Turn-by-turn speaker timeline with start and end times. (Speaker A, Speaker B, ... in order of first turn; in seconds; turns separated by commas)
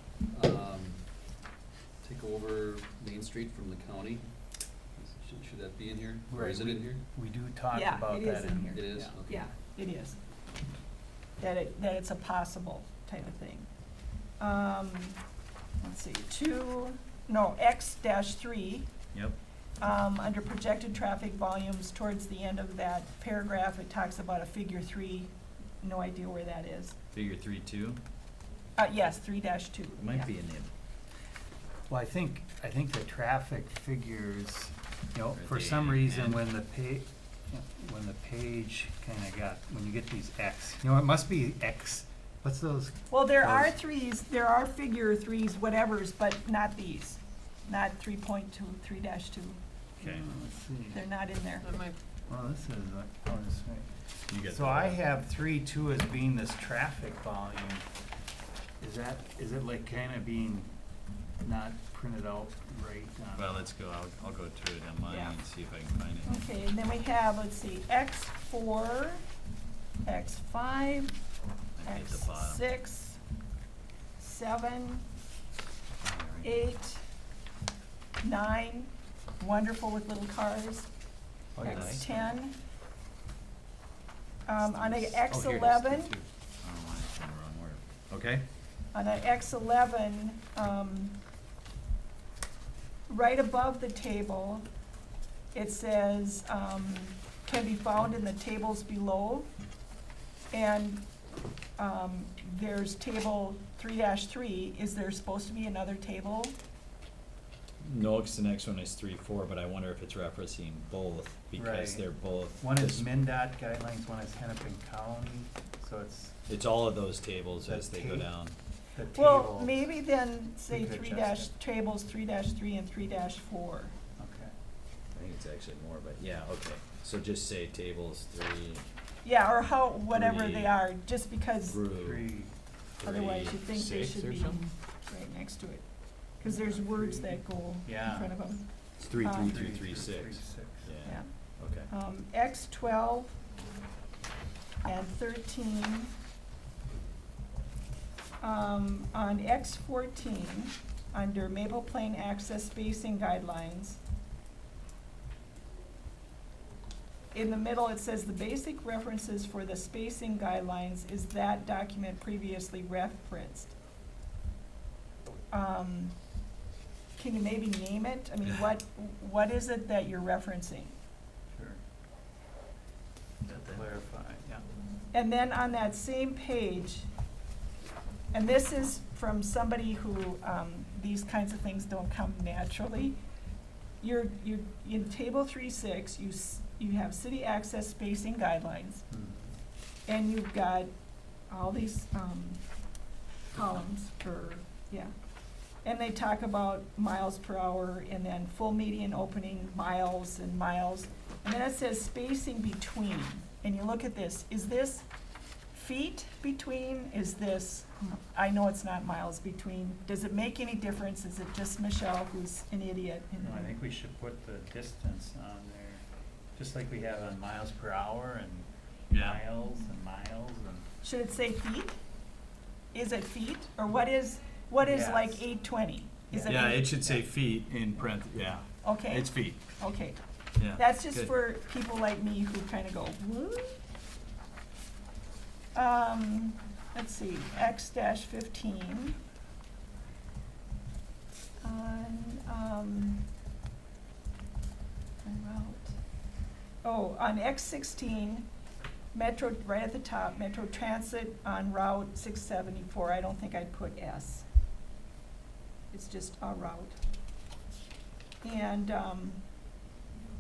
Speaker A: 0.3-1.0, Speaker A: 2.0-4.3, Speaker A: 5.0-7.0, Speaker B: 6.3-9.2, Speaker C: 7.7-10.2, Speaker A: 8.7-9.5, Speaker C: 11.4-13.7, Speaker C: 14.4-15.2, Speaker C: 15.8-18.9, Speaker D: 19.1-19.4, Speaker C: 19.8-27.0, Speaker D: 27.1-28.0, Speaker C: 28.8-30.3, Speaker D: 30.0-30.7, Speaker B: 31.9-43.8, Speaker D: 35.4-36.4, Speaker C: 43.1-49.6, Speaker D: 50.0-50.3, Speaker B: 50.0-51.0, Speaker C: 50.9-51.8, Speaker B: 52.3-53.9, Speaker D: 54.3-55.0, Speaker B: 54.5-57.9, Speaker B: 58.8-60.7, Speaker B: 61.4-63.6, Speaker D: 63.4-66.5, Speaker C: 65.1-65.3, Speaker C: 66.2-69.2, Speaker C: 70.0-71.2, Speaker D: 71.8-72.6, Speaker C: 71.8-73.2, Speaker C: 74.2-75.1, Speaker D: 76.0-76.7, Speaker C: 76.4-77.0, Speaker C: 78.2-80.9, Speaker B: 81.6-82.0, Speaker D: 81.6-82.1, Speaker C: 81.6-82.6, Speaker C: 84.5-86.1, Speaker D: 84.8-88.5, Speaker C: 88.9-91.2, Speaker C: 93.1-94.7, Speaker C: 95.5-99.5, Speaker C: 100.5-101.1, Speaker C: 101.8-106.5, Speaker D: 107.8-113.1, Speaker B: 111.5-112.1, Speaker B: 112.6-116.4, Speaker D: 116.5-118.6, Speaker B: 117.6-118.3, Speaker B: 119.0-119.9, Speaker C: 119.1-123.9, Speaker B: 120.7-121.5, Speaker B: 124.2-124.5, Speaker D: 125.1-128.8, Speaker C: 129.2-131.8, Speaker D: 130.1-130.8, Speaker D: 131.7-132.2, Speaker B: 131.9-132.5, Speaker D: 133.0-134.7, Speaker C: 133.0-135.8, Speaker C: 136.4-138.6, Speaker B: 136.5-138.3, Speaker D: 139.0-141.9, Speaker C: 139.2-139.6, Speaker B: 139.3-140.9, Speaker C: 141.0-143.4, Speaker C: 144.8-146.1, Speaker C: 148.4-154.0, Speaker C: 157.3-163.7, Speaker C: 165.5-166.2, Speaker C: 167.2-170.9, Speaker B: 171.5-171.8, Speaker D: 173.4-173.8, Speaker B: 173.7-174.6, Speaker C: 175.1-177.1, Speaker C: 178.3-183.2, Speaker C: 184.0-189.0, Speaker B: 189.1-189.5, Speaker C: 190.1-190.9, Speaker C: 191.5-192.6, Speaker C: 193.5-195.1, Speaker C: 195.8-205.1, Speaker C: 205.7-213.8, Speaker B: 213.4-216.0, Speaker B: 216.6-220.9, Speaker D: 219.1-219.4, Speaker C: 221.0-222.0, Speaker C: 222.9-226.9, Speaker B: 224.8-225.4, Speaker B: 226.3-227.3, Speaker D: 226.5-229.6, Speaker C: 228.8-230.2, Speaker D: 230.6-231.3, Speaker C: 230.7-233.8, Speaker C: 235.7-239.2, Speaker C: 241.6-243.3, Speaker C: 245.2-245.9, Speaker C: 246.8-248.5, Speaker C: 249.1-254.5, Speaker C: 255.9-257.0, Speaker C: 258.4-259.4